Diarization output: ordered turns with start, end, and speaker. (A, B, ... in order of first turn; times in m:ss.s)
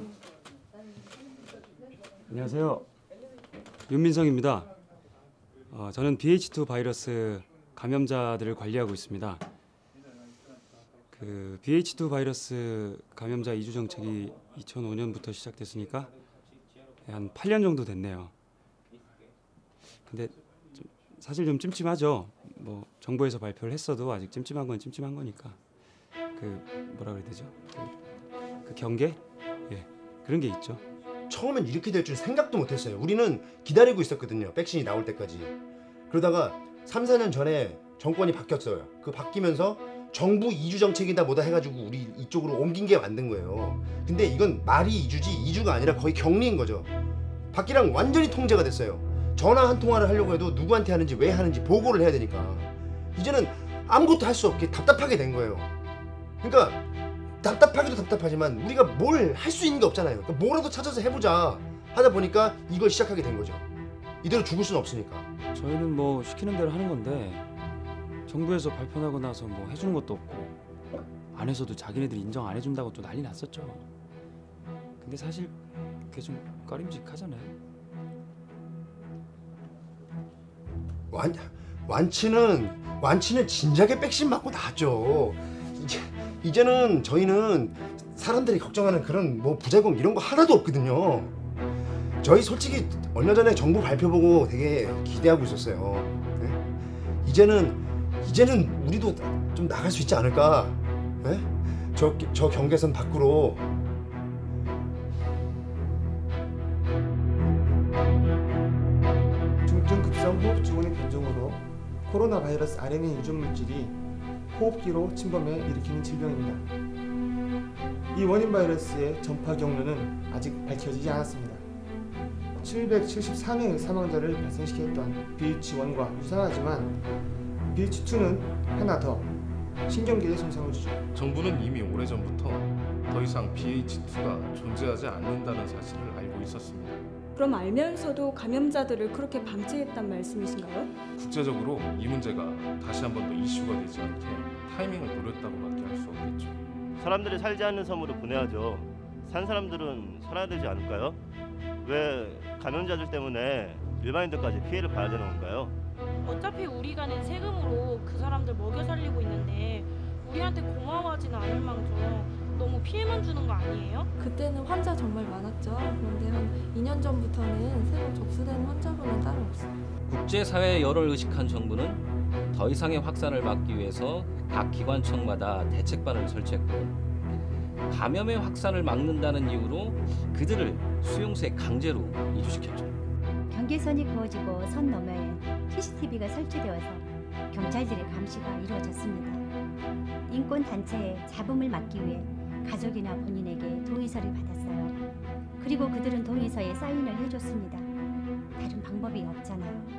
0:02.3-0:02.9 A
0:03.9-0:04.7 A
0:05.7-0:09.4 A
0:11.1-0:16.1 A
0:17.0-0:18.3 A
0:20.1-0:25.6 A
0:26.4-0:28.0 A
0:28.6-0:30.8 A
0:31.3-0:35.5 B
0:36.1-0:46.9 B
0:47.5-0:55.7 B
0:56.4-0:56.8 B
0:57.4-1:03.6 B
1:04.2-1:05.3 B
1:05.5-1:07.4 A
1:08.3-1:10.5 A
1:11.3-1:13.8 A
1:15.0-1:15.6 A
1:16.1-1:17.6 A
1:21.1-1:31.4 B
1:32.2-1:36.7 B
1:37.2-1:43.7 B
1:49.6-1:54.0 C
1:54.5-1:56.7 C
1:58.1-2:01.6 C
2:02.6-2:07.0 C
2:07.7-2:09.3 C
2:09.9-2:11.0 C
2:11.1-2:17.1 D
2:17.4-2:20.9 E
2:21.2-2:26.6 D
2:27.0-2:31.2 F
2:31.8-2:35.8 F
2:36.2-2:44.1 G
2:44.2-2:49.7 H
2:50.1-2:56.9 I
2:57.9-3:03.0 I
3:03.5-3:09.4 J
3:10.3-3:14.9 J
3:15.6-3:17.9 J
3:18.6-3:19.9 J